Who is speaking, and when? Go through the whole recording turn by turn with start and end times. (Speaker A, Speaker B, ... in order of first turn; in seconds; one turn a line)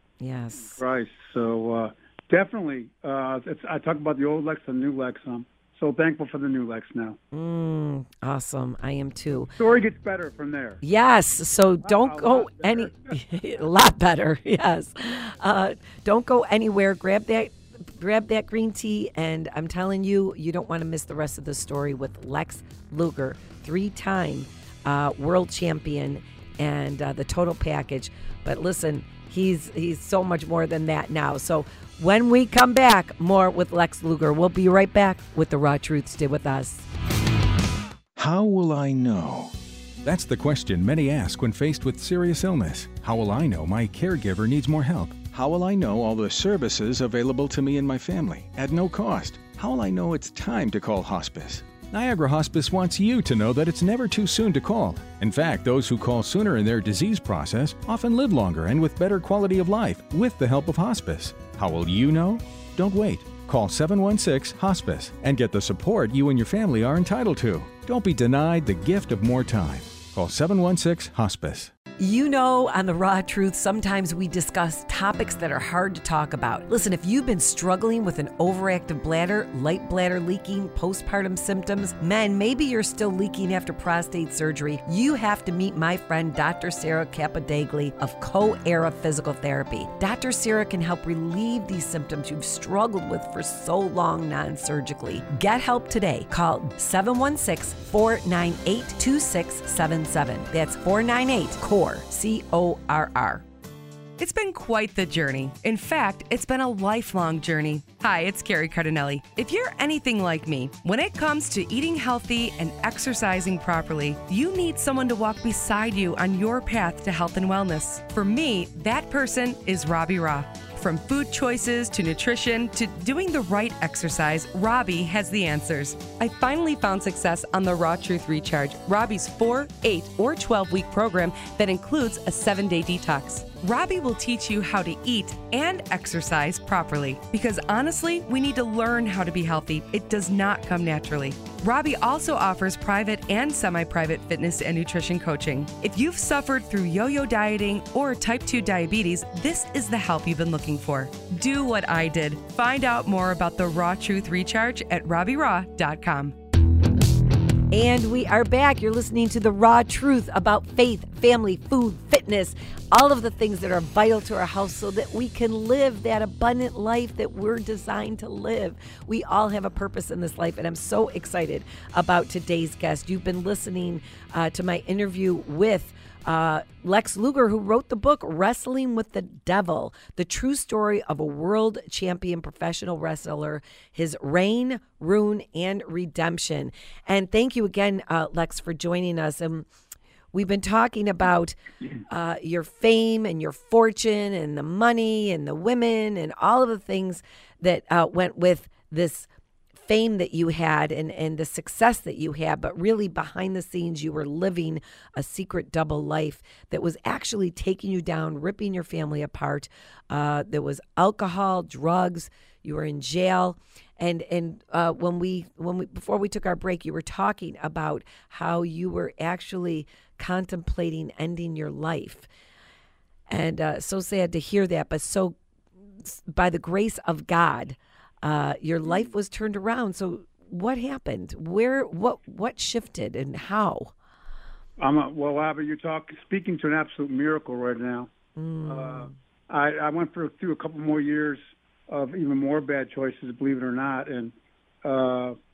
Speaker A: 0.2-0.8
Speaker B: 0.6-7.2
Speaker A: 7.3-9.5
Speaker B: 9.5-10.8
Speaker A: 10.8-36.9
Speaker B: 11.8-13.2
Speaker C: 38.2-71.7
Speaker A: 72.0-103.5
Speaker D: 104.2-156.3
Speaker A: 157.7-189.7
Speaker A: 190.3-199.3
Speaker A: 199.8-222.3
Speaker A: 223.3-225.3
Speaker A: 226.0-233.9
Speaker B: 234.8-238.1
Speaker A: 238.3-239.1
Speaker B: 238.7-245.4